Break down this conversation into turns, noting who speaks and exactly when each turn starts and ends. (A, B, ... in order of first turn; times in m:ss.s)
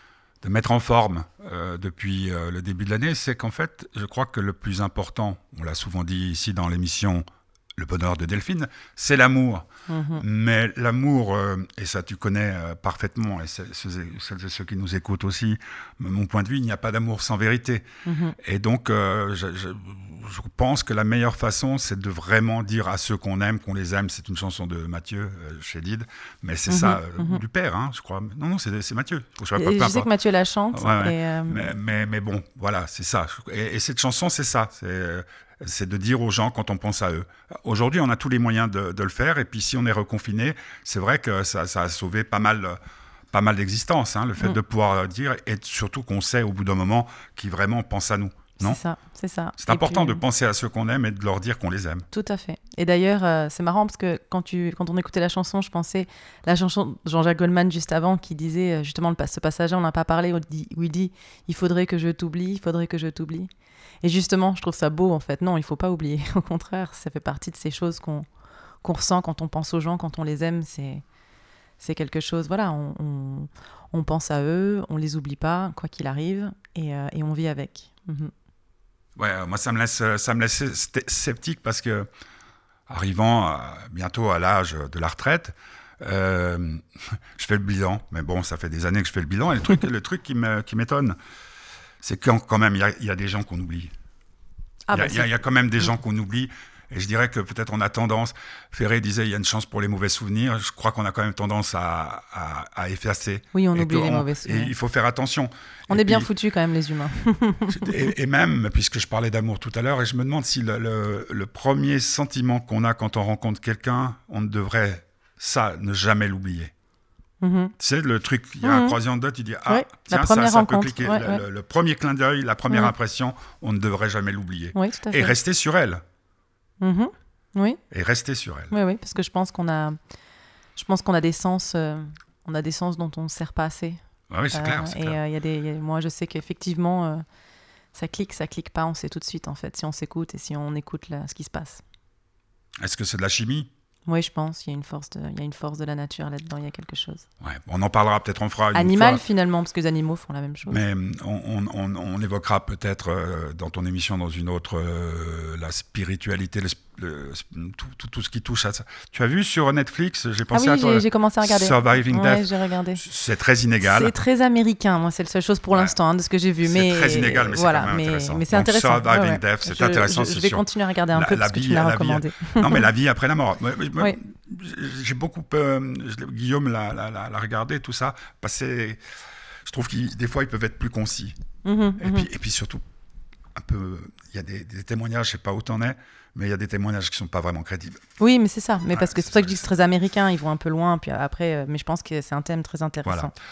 0:00.4-0:17.9 A
0:09.9-0:10.2 B
0:18.0-0:18.4 B
0:18.4-0:30.1 A
0:26.7-0:27.4 B
0:29.6-0:31.7 B
0:30.7-0:42.8 A
0:43.3-0:48.8 A
0:48.6-0:50.2 B
0:49.6-0:52.0 A
0:52.1-1:03.5 B
1:04.0-1:08.2 B
1:08.8-1:11.0 B
1:11.8-1:18.3 B
1:19.2-1:22.1 A
1:22.9-1:26.8 A
1:27.4-1:31.2 A
1:32.0-1:33.9 A
1:34.9-1:35.3 B
1:34.9-1:46.3 A
1:43.5-1:44.7 B
1:45.9-1:48.0 B
1:47.7-1:56.7 A
1:57.4-1:57.7 B
1:57.8-2:06.0 A
1:58.6-1:59.0 B
1:59.7-2:01.4 B
2:04.7-2:05.3 B
2:06.8-2:07.8 B
2:07.9-2:08.7 A
2:08.7-2:10.0 B
2:10.8-2:14.0 B
2:14.3-2:15.2 A
2:14.5-2:17.2 B
2:17.9-2:21.8 B
2:22.8-2:23.7 A
2:24.1-2:27.2 B
2:27.4-2:29.2 A
2:28.7-2:30.8 B
2:30.7-2:44.1 A
2:40.5-2:43.0 B
2:43.8-2:52.9 B
2:46.6-2:59.0 A
2:59.6-3:01.4 A
3:01.6-3:02.3 B
3:02.0-3:02.8 A
3:03.6-3:08.0 A
3:08.2-3:13.3 B
3:08.9-3:09.6 A
3:13.0-3:13.3 A